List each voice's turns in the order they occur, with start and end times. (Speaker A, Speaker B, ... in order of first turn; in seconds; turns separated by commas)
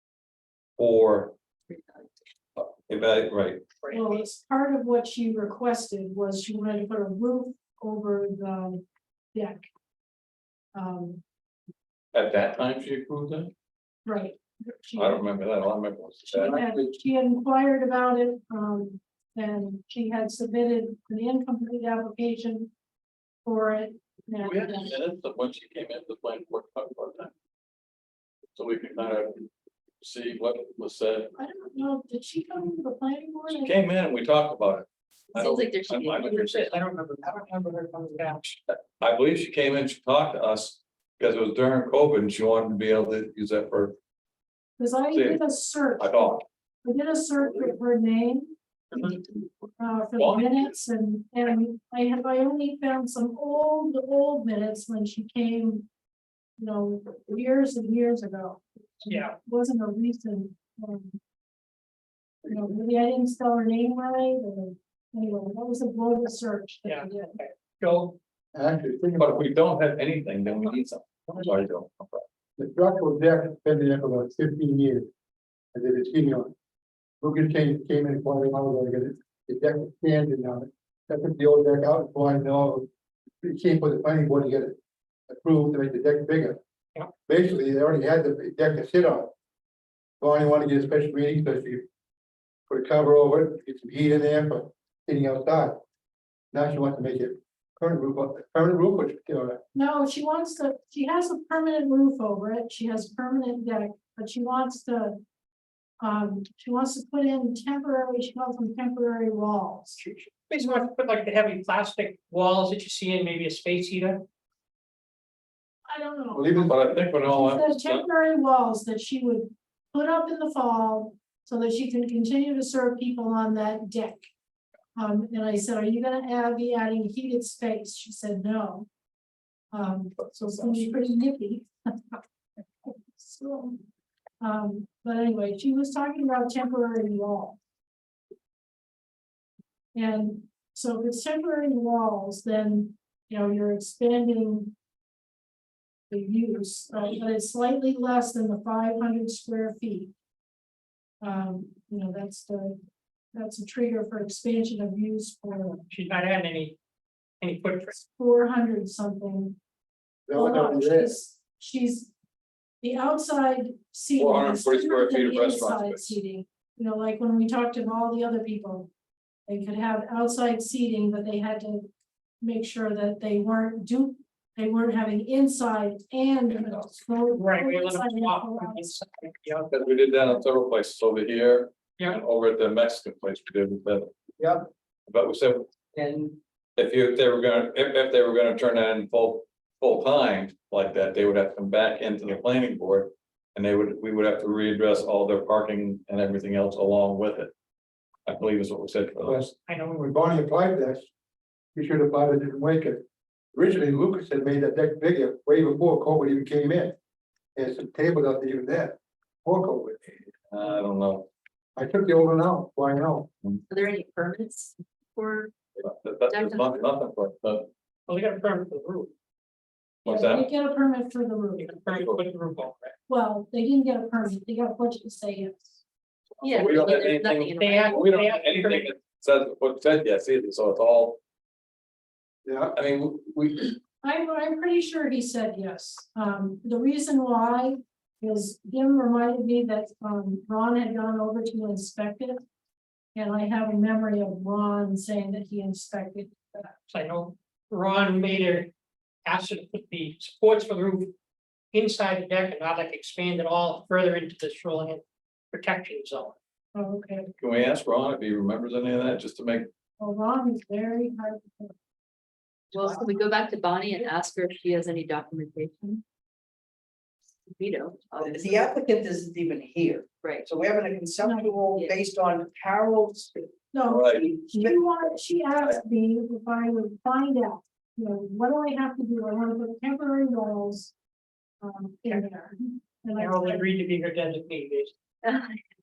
Speaker A: 0.8-1.3, Speaker B: 1.7-2.0, Speaker A: 2.6-3.6, Speaker C: 3.8-4.2, Speaker D: 3.9-8.8, Speaker D: 9.3-9.6, Speaker D: 10.7-11.2, Speaker A: 12.1-13.5, Speaker D: 14.0-15.2, Speaker A: 14.9-16.9, Speaker D: 16.2-22.7, Speaker D: 23.4-24.7, Speaker A: 24.3-27.3, Speaker A: 28.5-31.3, Speaker D: 31.4-33.8, Speaker A: 33.5-36.8, Speaker B: 35.3-36.4, Speaker C: 36.3-38.6, Speaker E: 37.2-38.2, Speaker A: 38.7-44.0, Speaker D: 44.8-48.5, Speaker A: 45.1-45.4, Speaker A: 46.0-46.4, Speaker C: 48.9-49.2, Speaker D: 49.8-55.9, Speaker A: 50.2-50.7, Speaker D: 56.6-61.2, Speaker C: 59.0-59.4, Speaker D: 62.4-67.4, Speaker C: 66.8-68.2, Speaker F: 68.5-69.5, Speaker A: 69.2-72.2, Speaker F: 72.6-75.1, Speaker F: 75.7-76.5, Speaker F: 77.2-82.9, Speaker F: 83.4-84.8, Speaker F: 85.3-86.6, Speaker F: 87.3-89.3, Speaker F: 90.2-91.8, Speaker F: 92.7-95.8, Speaker F: 96.5-99.6, Speaker D: 99.7-105.2, Speaker D: 106.0-110.0, Speaker C: 110.0-114.2, Speaker D: 115.8-124.3, Speaker F: 116.3-116.8, Speaker A: 116.7-118.0, Speaker D: 124.9-128.9, Speaker D: 129.7-132.2, Speaker A: 130.3-130.8, Speaker D: 132.8-133.8, Speaker D: 134.4-137.6, Speaker D: 139.9-144.7, Speaker D: 146.1-150.1, Speaker D: 151.2-152.8, Speaker D: 153.3-155.8, Speaker C: 155.9-156.8, Speaker C: 157.4-157.9, Speaker D: 158.0-159.6, Speaker F: 160.3-161.1, Speaker D: 160.3-162.1, Speaker D: 162.8-168.9, Speaker A: 164.2-166.2, Speaker D: 169.5-171.9, Speaker D: 172.4-178.9, Speaker C: 177.3-179.7, Speaker A: 179.7-184.1, Speaker A: 185.1-185.7, Speaker E: 185.9-186.3, Speaker A: 186.8-197.5, Speaker A: 198.2-199.5, Speaker F: 199.2-201.1, Speaker C: 199.7-200.0, Speaker F: 201.7-203.0, Speaker F: 203.5-206.9, Speaker F: 207.6-210.3, Speaker A: 210.5-211.3, Speaker F: 211.8-213.3, Speaker B: 213.7-215.5, Speaker A: 215.8-217.7, Speaker B: 216.3-216.8, Speaker C: 218.1-219.1, Speaker A: 220.0-220.5, Speaker D: 220.0-221.8, Speaker C: 221.6-222.9, Speaker A: 221.9-222.2, Speaker D: 223.1-225.7, Speaker B: 226.4-228.1, Speaker A: 226.4-231.2, Speaker C: 227.5-228.9, Speaker F: 232.4-232.7, Speaker A: 232.7-233.8, Speaker D: 234.0-242.4, Speaker D: 243.1-246.8, Speaker C: 246.9-248.7, Speaker C: 249.2-251.1, Speaker C: 251.7-256.4, Speaker D: 256.7-257.3, Speaker A: 257.4-259.7, Speaker D: 260.0-261.7, Speaker E: 262.7-263.1, Speaker B: 262.7-266.0, Speaker B: 267.5-268.8, Speaker E: 268.2-273.5, Speaker B: 270.2-270.5, Speaker D: 271.2-271.6, Speaker B: 271.7-272.0, Speaker D: 273.7-280.9, Speaker A: 273.8-274.3, Speaker E: 274.4-274.8, Speaker D: 281.6-283.7, Speaker C: 283.1-284.9, Speaker B: 285.2-285.6